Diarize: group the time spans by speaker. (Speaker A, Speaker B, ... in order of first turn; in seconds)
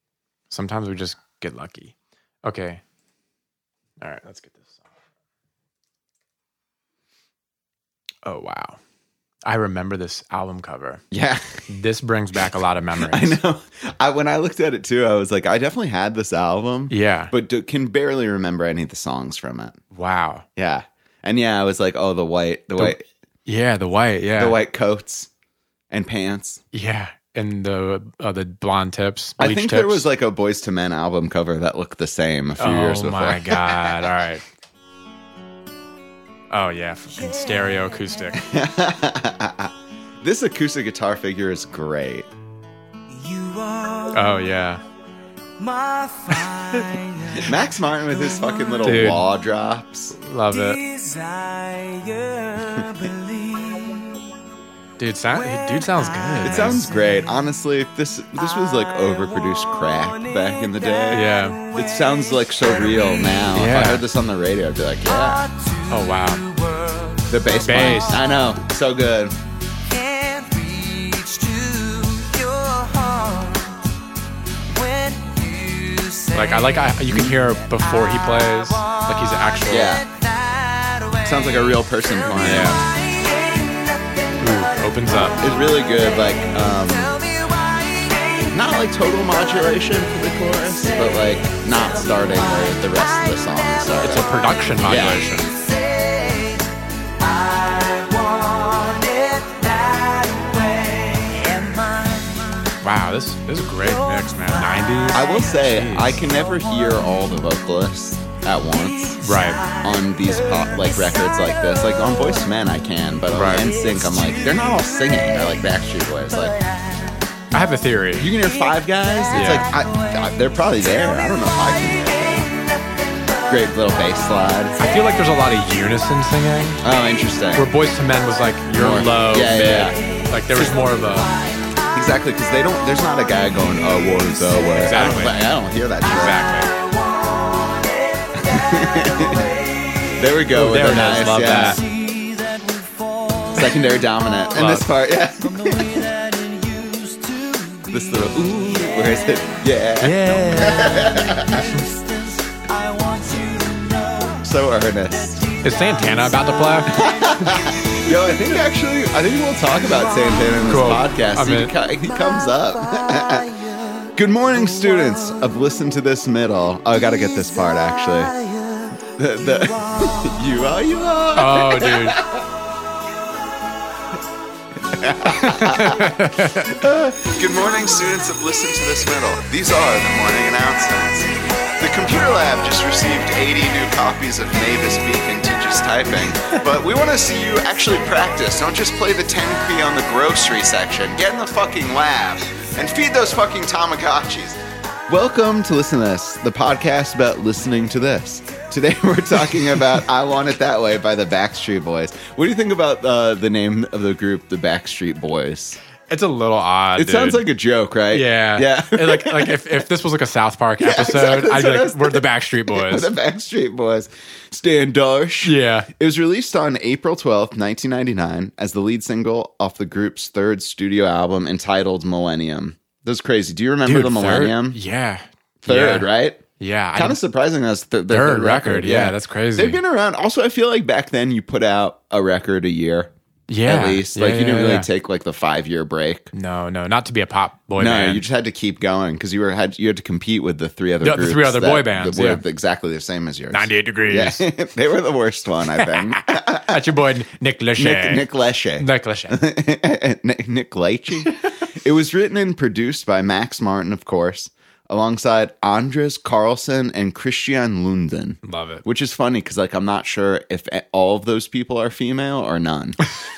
Speaker A: 0.5-2.8, 4.0-4.8, 8.2-8.8, 9.4-11.0, 11.7-13.4, 16.9-17.3, 19.9-20.4, 22.8-24.6, 26.7-30.1, 32.6-34.4, 36.5-38.4, 44.1-44.8, 48.8-49.3, 50.1-50.8, 55.0-56.9, 61.1-61.6, 63.5-64.0, 65.9-66.5, 67.6-68.2, 76.3-80.0, 82.4-82.8, 84.4-85.4, 94.0-95.5, 102.8-106.2, 109.2-109.7, 113.3-113.7, 117.5-118.3, 119.3-119.7, 124.8-126.8, 127.5-131.3, 134.7-135.4, 136.1-136.7, 140.5-141.8, 144.5-144.9, 150.0-150.9, 151.5-151.9, 155.6-157.0, 160.7-161.7, 171.3-172.2, 175.2-176.8, 206.1-207.4, 208.1-213.1, 215.4-215.9, 223.8-226.1, 226.6-227.2, 228.1-229.8, 233.5-234.9, 236.3-238.2, 241.0-242.4, 243.5-244.4, 245.7-248.2, 248.8-249.4, 258.4-258.8
Speaker B: 11.1-11.6, 13.0-19.8, 20.6-23.0, 24.4-25.3, 25.9-26.6, 29.4-34.0, 38.3-39.7, 40.2-42.3, 47.4-50.1, 56.4-65.5, 67.3-69.3, 77.1-77.4, 79.7-80.1, 81.2-82.8, 85.4-87.2, 88.5-94.2, 94.8-95.2, 105.1-116.6, 118.2-122.5, 123.5-124.8, 126.8-127.7, 128.7-130.0, 130.5-130.8, 131.9-136.4, 138.4-139.6, 140.1-141.8, 143.5-146.0, 147.9-151.7, 154.4-155.4, 156.9-168.4, 169.0-172.5, 174.9-176.1, 176.7-205.8, 206.9-209.6, 210.8-224.8, 225.6-226.4, 226.9-233.1, 233.6-236.3, 237.8-246.8, 247.8-263.0
Speaker C: 43.2-44.1, 45.6-47.4, 50.8-54.3, 65.5-67.3, 69.9-73.8, 74.8-76.3, 80.2-81.2, 83.1-84.3, 87.2-88.5, 95.5-96.7, 97.2-102.7, 109.3-109.8, 137.1-138.3, 139.3-139.9, 141.9-143.6, 145.6-147.9, 150.7-154.4